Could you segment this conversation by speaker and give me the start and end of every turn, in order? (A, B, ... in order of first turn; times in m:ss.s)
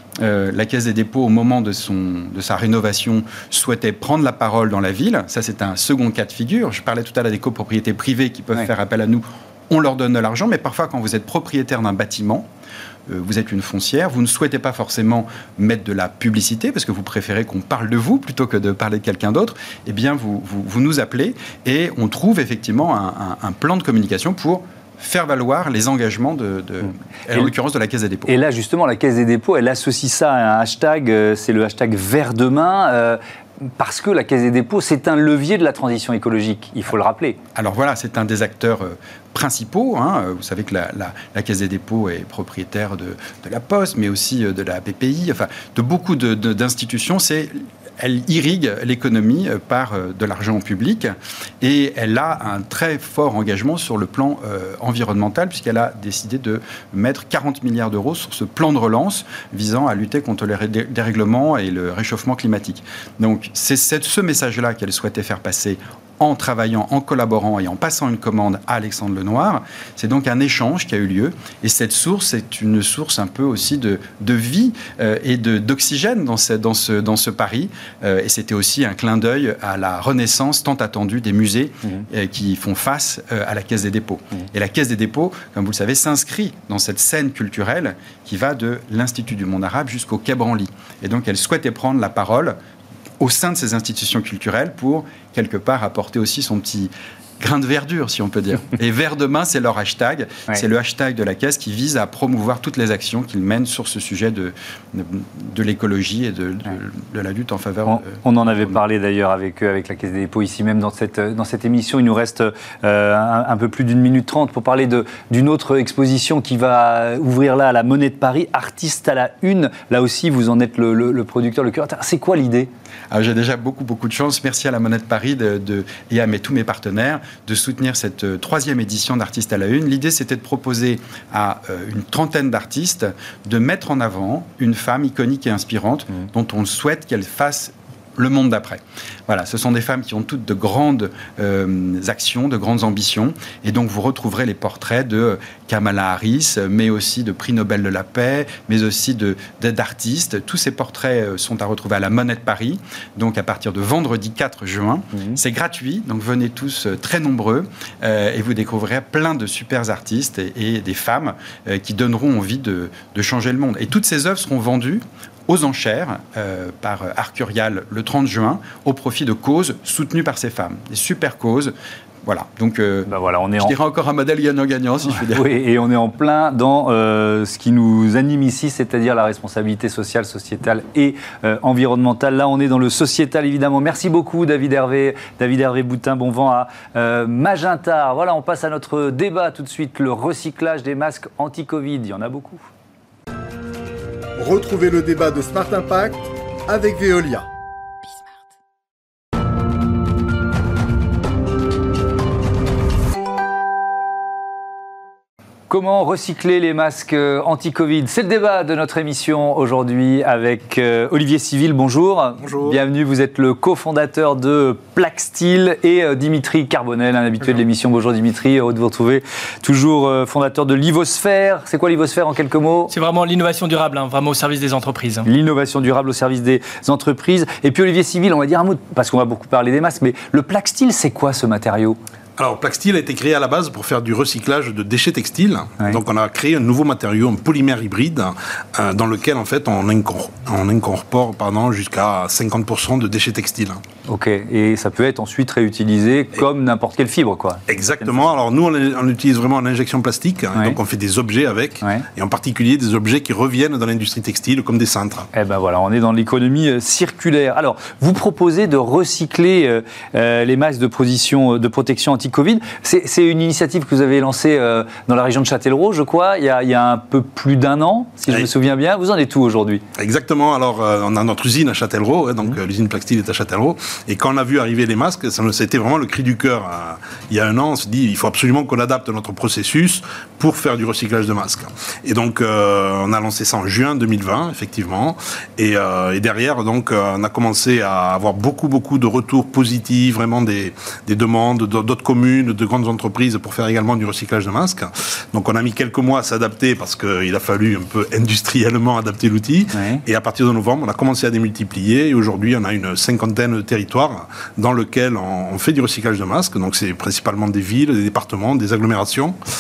0:00.2-0:12.5 A
0:13.1-0:28.3 A
0:28.3-0:33.2 B
0:33.8-0:37.4 B
0:37.6-1:32.6 A
1:33.2-1:48.8 A
1:47.9-2:02.7 B
2:03.1-2:51.7 A
2:35.1-2:35.4 B
2:52.2-2:55.5 A
2:53.1-2:53.7 B
2:55.1-3:12.7 B
3:14.4-3:17.5 C
3:25.7-3:42.9 B
3:32.4-3:32.8 D
3:42.9-3:45.3 E
3:45.2-3:52.0 B
3:52.4-4:03.8 D
4:04.1-4:08.2 B
4:07.7-4:15.3 D
4:15.3-4:29.8 B
4:30.0-5:09.4 D
4:59.7-5:00.0 B